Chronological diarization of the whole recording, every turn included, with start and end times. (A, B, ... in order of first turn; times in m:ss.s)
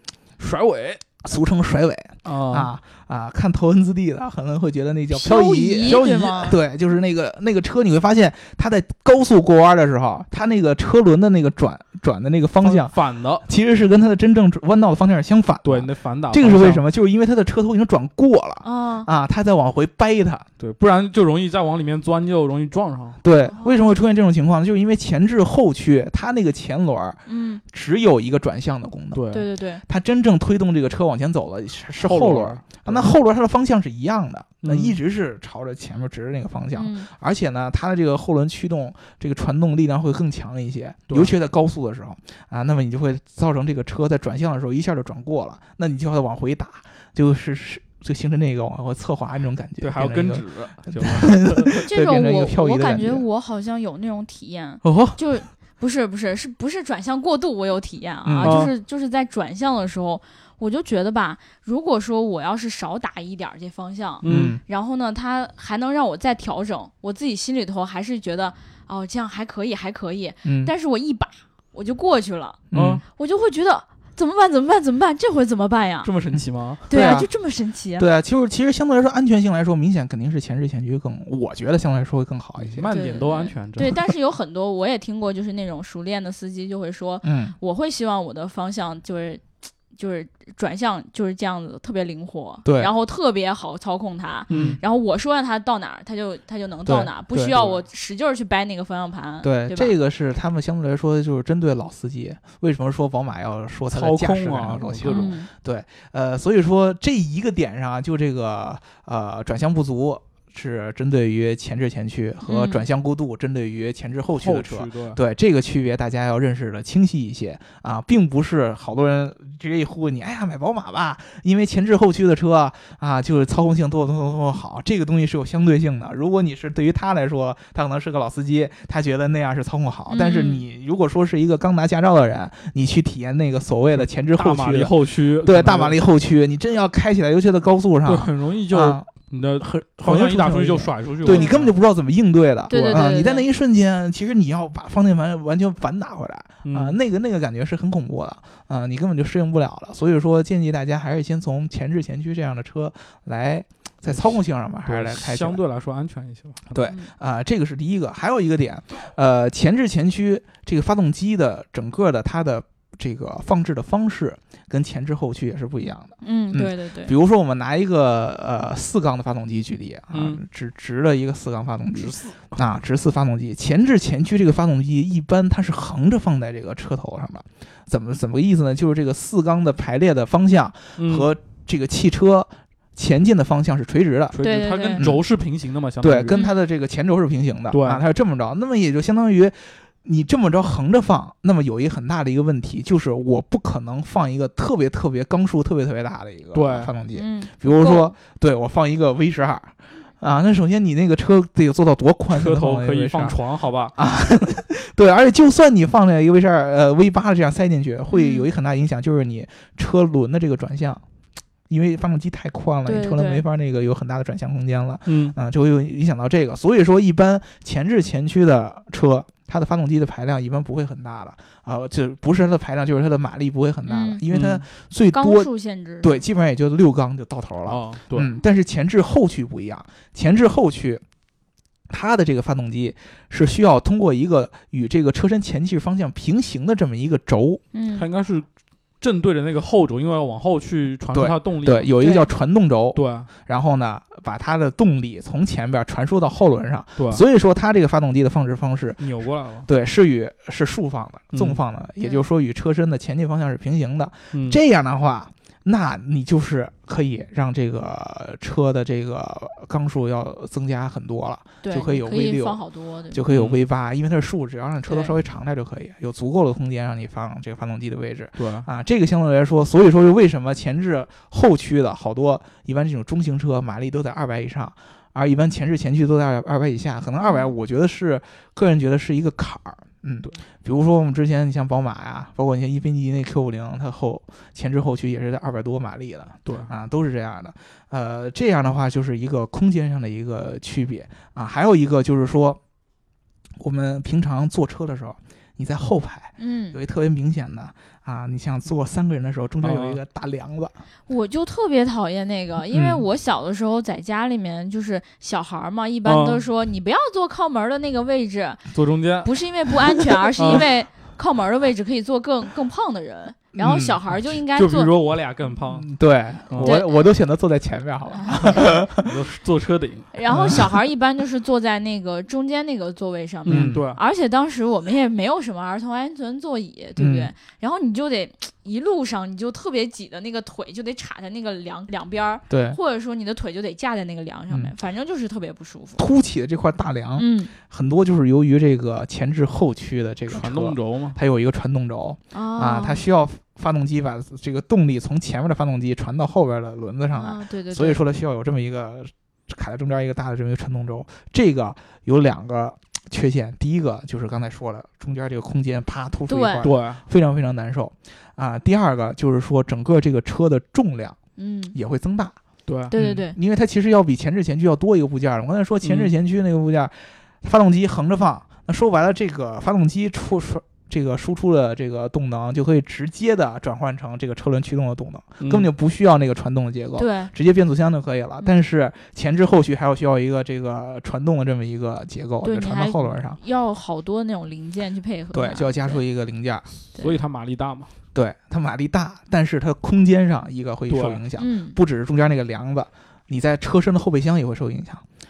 0:00.4-0:01.0 A
0:01.2-0:20.5 B
0:02.2-0:02.7 A
0:05.1-0:06.6 C
0:05.9-0:06.4 A
0:12.6-0:13.4 A
0:15.6-0:16.8 A
0:18.6-0:19.1 C
0:20.6-0:23.2 A
0:23.2-0:29.2 B
0:23.5-0:24.0 C
0:27.3-0:27.6 C
0:29.1-0:29.5 A
0:29.3-0:29.8 C
0:29.9-0:53.2 B
0:32.0-0:33.1 A
0:34.6-0:35.0 A
0:36.8-0:37.1 C
0:49.8-0:51.9 A
0:51.9-1:12.6 C
0:54.8-0:55.1 A
0:58.2-0:58.6 B
0:58.4-0:58.7 A
1:04.2-1:04.6 A
1:04.2-1:04.6 B
1:10.4-1:10.7 B
1:12.7-1:13.0 B
1:12.7-1:13.0 A
1:13.2-1:16.1 C
1:16.0-1:16.8 A
1:16.9-1:18.1 C
1:16.9-1:17.3 B
1:18.0-1:22.9 B
1:22.6-1:24.0 A
1:22.9-1:39.9 C
1:27.2-1:27.6 B
1:32.6-1:32.9 B
1:34.5-1:34.8 A
1:34.5-1:34.8 B
1:36.9-1:37.6 B
1:37.5-1:37.8 A
1:39.4-2:19.1 B
1:43.9-1:45.4 A
1:45.1-1:45.5 C
1:52.5-1:52.8 C
1:54.4-1:55.2 A
2:10.1-2:10.6 C
2:14.0-2:16.0 A
2:18.0-2:21.7 A
2:19.6-2:35.6 B
2:21.2-2:21.6 C
2:22.7-2:23.4 C
2:22.7-2:23.2 A
2:26.6-2:27.0 A
2:34.9-2:36.8 A
2:36.7-3:04.4 B
2:46.2-2:47.1 C
2:50.1-2:50.4 A
2:51.9-2:52.6 A
3:01.0-3:01.3 A
3:04.3-3:06.4 A
3:04.4-3:05.1 C
3:05.0-3:05.2 B
3:06.0-3:23.4 B
3:07.7-3:08.0 A
3:16.5-3:16.9 A
3:17.1-3:18.1 C
3:22.3-3:23.9 A
3:23.9-3:31.0 B
3:28.1-3:28.5 C
3:31.7-3:45.5 B
3:32.9-3:33.4 C
3:35.1-3:35.4 A
3:43.9-3:44.2 C
3:44.3-3:44.6 A
3:45.1-3:46.1 C
3:46.0-3:51.0 B
3:47.6-3:48.3 A
3:51.9-3:57.6 B
3:57.7-3:58.1 C
3:57.9-3:58.5 A
3:59.0-4:01.9 A
4:01.1-4:09.0 B
4:02.0-4:02.3 C
4:02.9-4:03.3 A
4:07.0-4:07.2 A
4:09.0-4:09.7 A
4:09.6-4:52.6 B
4:11.3-4:11.6 A
4:14.3-4:14.6 A
4:21.6-4:23.2 C
4:23.3-4:23.6 A
4:24.9-4:25.1 C
4:28.4-4:28.7 A
4:37.2-4:37.5 C
4:46.4-4:46.7 A
4:53.6-5:00.7 B
4:56.4-4:56.8 C
4:59.6-5:00.0 A
5:01.1-5:08.7 C
5:06.0-5:06.4 A
5:08.7-5:09.3 A
5:09.2-5:14.9 C
5:10.4-5:10.6 A
5:13.6-5:14.0 B
5:14.5-5:15.9 A
5:15.7-5:19.1 B
5:16.5-5:16.8 A
5:16.6-5:16.9 C
5:18.2-5:18.7 C
5:18.4-5:20.1 A
5:20.1-5:36.0 C
5:20.3-5:20.7 B
5:23.5-5:24.0 A
5:23.5-5:23.9 B
5:27.0-5:27.3 B
5:32.5-5:32.8 B
5:34.5-5:34.7 B
5:36.0-6:01.2 B
5:37.2-5:37.5 C
5:40.3-5:41.2 A
5:42.3-5:43.0 C
5:47.1-5:48.0 C
5:56.3-5:56.6 C
5:56.6-5:57.0 A
6:01.4-6:01.8 C
6:01.7-6:02.4 B
6:02.7-6:02.9 A
6:02.9-6:03.4 C
6:02.9-6:23.4 B
6:05.8-6:06.1 A
6:15.4-6:15.7 A
6:17.0-6:17.3 C
6:22.4-6:26.0 C
6:25.3-6:26.7 B
6:27.0-6:27.9 A
6:28.1-6:35.0 B
6:30.9-6:31.2 A
6:31.4-6:31.8 C